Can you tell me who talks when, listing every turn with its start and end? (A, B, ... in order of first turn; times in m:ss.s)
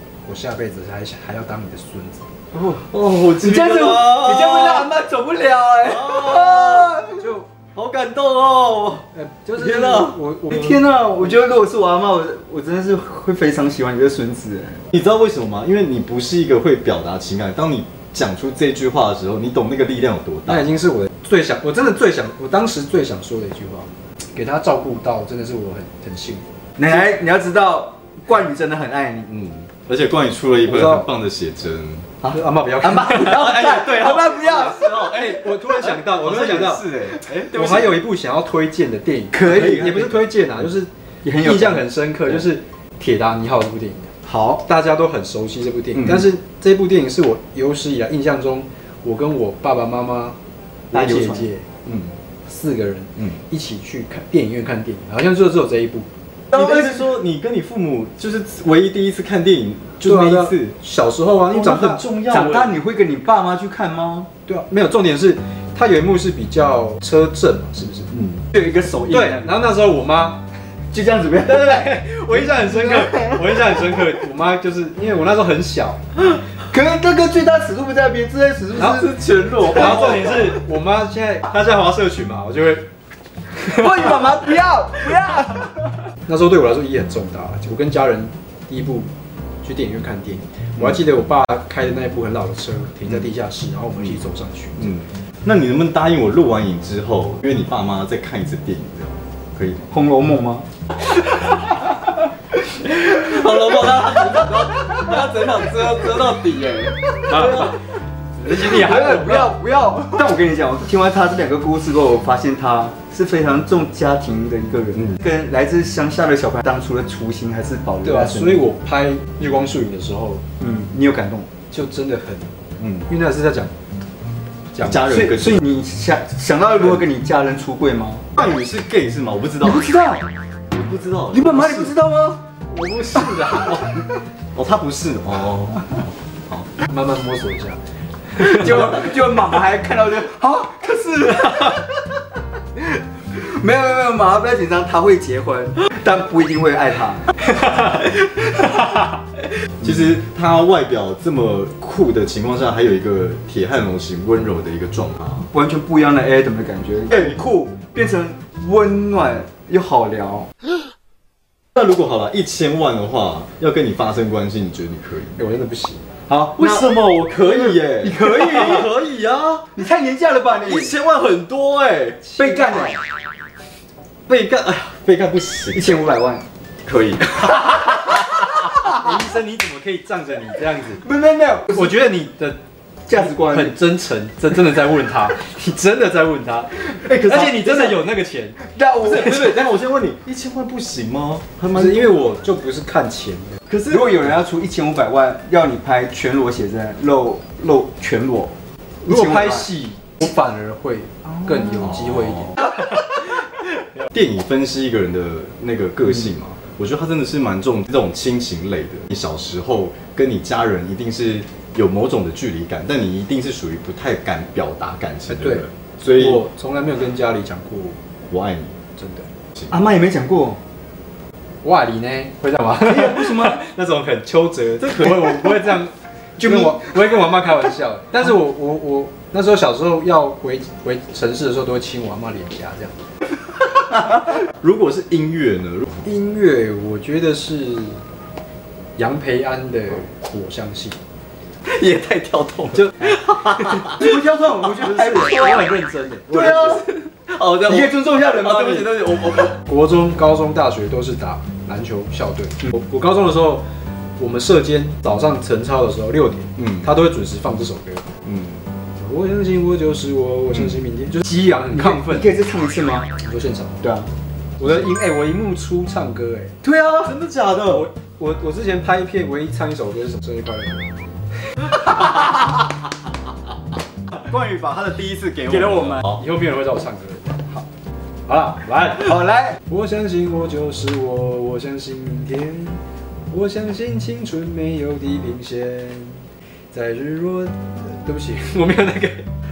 0:00.2-0:02.3 A
0:02.5-0:04.9 B
0:03.3-0:07.3 C
0:06.0-0:06.9 B
0:07.2-0:07.4 A
0:07.8-0:09.0 B
0:09.1-0:10.8 A
0:09.6-0:14.8 C
0:14.9-0:20.6 B
0:20.4-0:26.4 A
0:26.8-0:29.3 C
0:29.3-0:32.1 B
0:30.6-0:31.1 A
0:32.2-0:34.9 C
0:32.3-0:33.4 A
0:33.1-0:38.0 B
0:35.0-0:36.8 A
0:37.5-0:40.9 A
0:39.3-0:40.2 C
0:41.2-0:42.5 C
0:41.4-0:50.4 A
0:44.2-0:44.6 C
0:50.9-0:51.6 A
0:50.9-0:51.5 C
0:52.4-0:56.1 A
0:56.5-1:00.8 B
1:00.0-1:02.0 A
1:01.5-1:02.7 B
1:02.3-1:04.3 C
1:04.4-1:08.2 A
1:08.5-1:09.5 C
1:09.1-1:10.4 A
1:10.9-1:13.7 C
1:11.4-1:16.0 A
1:16.4-1:20.5 C
1:18.8-1:19.1 A
1:18.8-1:20.3 B
1:19.6-1:22.9 A
1:23.6-1:26.0 C
1:26.2-1:29.1 A
1:29.6-1:35.0 A
1:34.8-1:39.9 B
1:39.9-1:40.6 C
1:41.3-1:41.9 B
1:42.8-1:47.8 B
1:47.3-1:47.7 A
1:48.4-1:49.5 A
1:48.5-1:58.7 C
1:58.0-2:00.4 A
2:00.6-2:01.5 C
2:01.7-2:02.5 A
2:03.0-2:03.7 A
2:04.8-2:05.2 A
2:04.8-2:05.6 B
2:05.0-2:08.2 C
2:08.4-2:09.8 B
2:09.6-2:10.2 C
2:10.7-2:11.9 B
2:11.3-2:12.4 C
2:12.7-2:13.9 A
2:14.5-2:16.7 B
2:16.8-2:17.8 A
2:18.4-2:18.6 A
2:18.4-2:22.1 C
2:22.8-2:27.3 C
2:29.8-2:35.5 B
2:35.5-2:40.5 C
2:41.8-2:45.4 B
2:45.4-2:46.0 A
2:46.3-2:46.9 C
2:46.6-2:49.7 B
2:47.4-2:48.9 C
2:49.8-2:50.9 C
2:50.6-2:52.4 B
2:52.2-2:52.9 A
2:52.4-2:53.0 C
2:54.3-2:56.0 B
2:55.7-2:56.4 C
2:56.8-2:58.5 B
2:58.9-3:01.0 A
3:01.0-3:02.0 C
3:01.7-3:02.6 A
3:03.0-3:03.8 C
3:03.1-3:08.6 A
3:07.0-3:07.9 B
3:08.6-3:09.5 C
3:09.0-3:12.2 B
3:11.7-3:13.6 A
3:13.7-3:14.3 B
3:13.9-3:18.5 C
3:19.0-3:22.7 A
3:19.1-3:19.7 C
3:24.1-3:36.4 B
3:35.3-3:38.0 A
3:38.3-3:38.7 B
3:39.0-3:39.2 A
3:39.7-3:40.6 C
3:41.6-3:52.9 A
3:42.8-3:43.6 C
3:53.9-3:55.9 B
3:56.0-3:58.0 A
3:59.0-4:01.0 A
4:01.6-4:04.0 B
4:02.8-4:03.8 A
4:03.9-4:05.8 C
4:04.8-4:06.8 A
4:06.3-4:09.6 B
4:06.4-4:06.8 C
4:07.6-4:09.0 C
4:09.6-4:13.6 A
4:14.2-4:18.1 A
4:18.2-4:18.6 B
4:19.0-4:22.4 A
4:21.2-4:23.1 C
4:23.2-4:23.8 A
4:23.8-4:24.1 C
4:24.6-4:26.5 A
4:26.6-4:27.1 C
4:27.0-4:27.9 B
4:27.7-4:30.9 A
4:34.2-4:36.2 B
4:35.5-4:37.4 A
4:38.3-4:49.2 A
4:39.1-4:39.5 C